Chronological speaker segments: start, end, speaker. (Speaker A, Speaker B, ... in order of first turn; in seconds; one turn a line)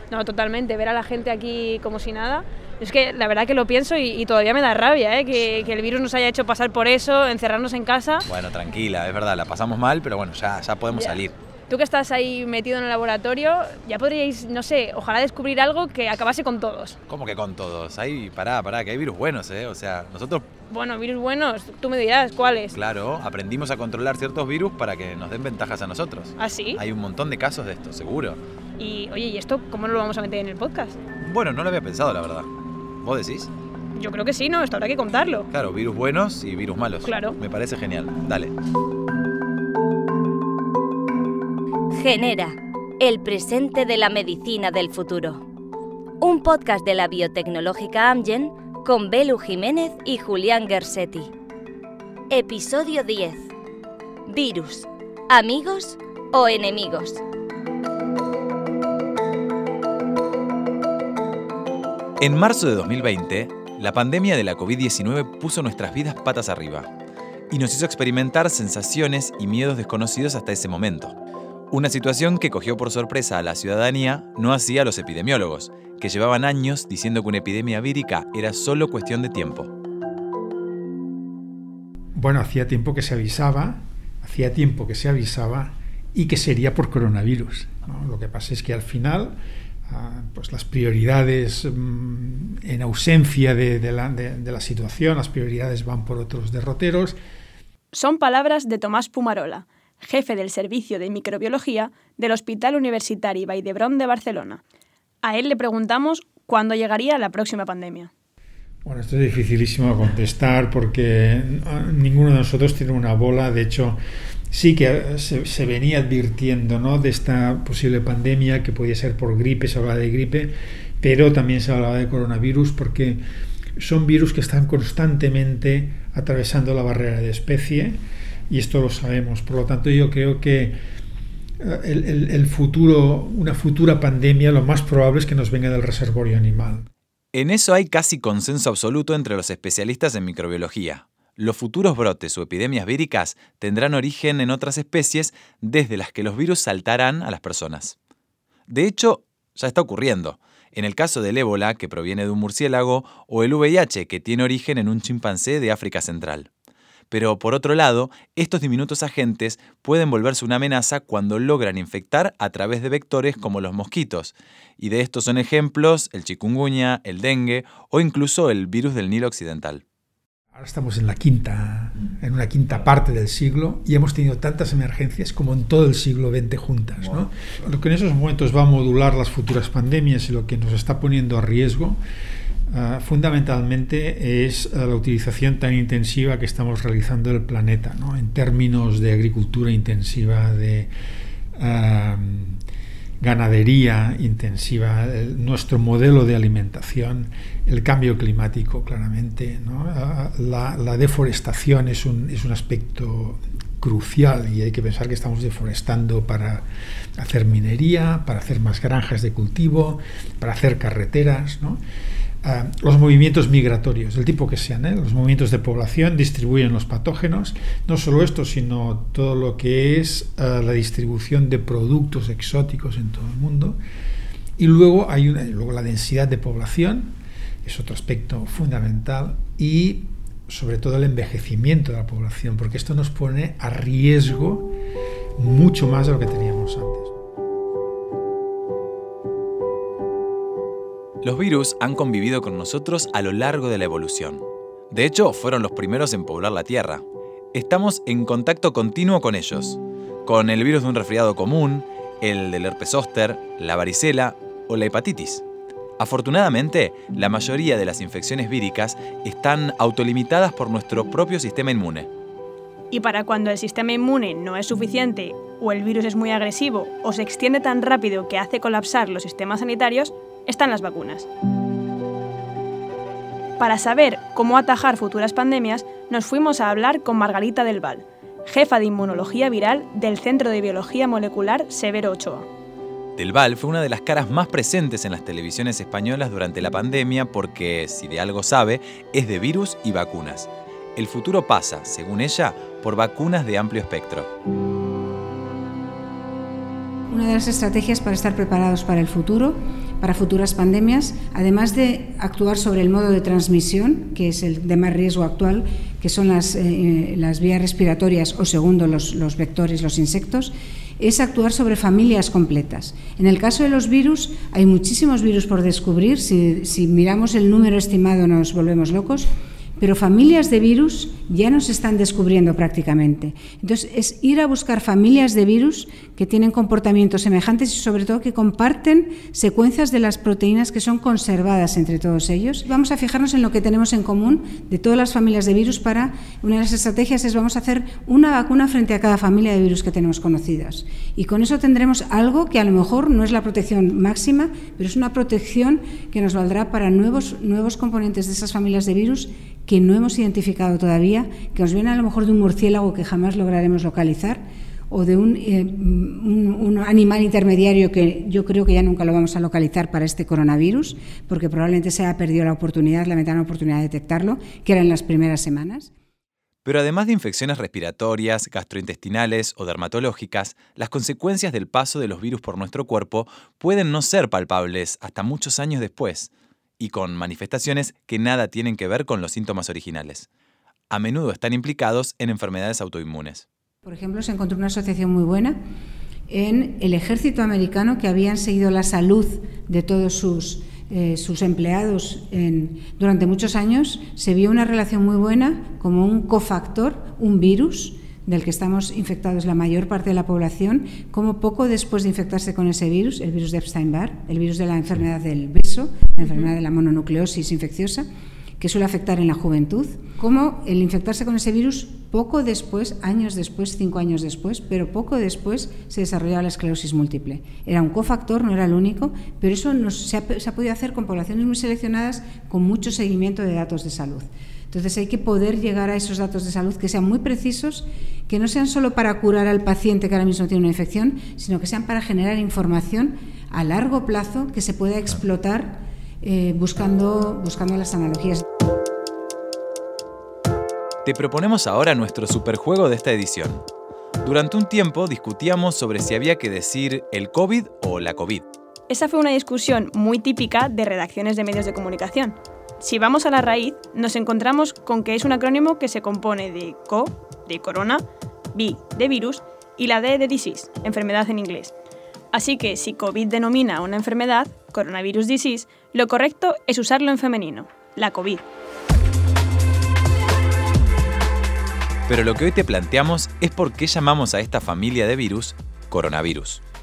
Speaker A: 0.1-8.2
Speaker B: 8.2-11.3
Speaker A: 10.9-17.0
Speaker B: 17.1-20.5
Speaker A: 20.7-22.8
Speaker B: 22.7-28.4
Speaker A: 26.4-26.8
Speaker A: 28.8-31.0
Speaker B: 31.2-32.5
Speaker B: 33.0-33.5
Speaker A: 34.0-35.5
Speaker B: 35.5-38.5
Speaker A: 37.0-37.4
Speaker C: 41.9-45.4
Speaker C: 46.2-51.3
Speaker C: 52.3-53.5
Speaker C: 54.3-57.2
Speaker B: 62.2-66.9
Speaker B: 67.5-71.2
Speaker B: 71.7-79.7
Speaker D: 82.2-97.2
Speaker A: 97.9-104.6
Speaker A: 105.2-108.1
Speaker D: 108.8-114.0
Speaker D: 114.5-123.2
Speaker D: 123.8-130.8
Speaker D: 131.6-136.9
Speaker B: 137.3-148.0
Speaker B: 148.7-156.5
Speaker B: 157.1-169.8
Speaker D: 170.5-182.0
Speaker D: 182.7-190.9
Speaker D: 191.6-192.6
Speaker D: 193.2-206.7
Speaker D: 207.2-211.8
Speaker D: 212.4-223.8
Speaker D: 224.6-234.7
Speaker D: 235.4-237.1
Speaker B: 241.2-255.4
Speaker B: 256.0-262.1
Speaker A: 262.9-271.3
Speaker A: 273.6-282.4
Speaker B: 283.2-294.3
Speaker E: 297.1-365.9
Speaker B: 366.6-380.3
Speaker B: 380.9-383.4
Speaker E: 383.8-385.6
Speaker E: 386.3-408.1
Speaker E: 408.6-438.4
Speaker B: 441.0-443.6
Speaker B: 444.2-448.4
Speaker A: 448.9-461.7
Speaker A: 462.3-468.4
Speaker B: 472.1-476.6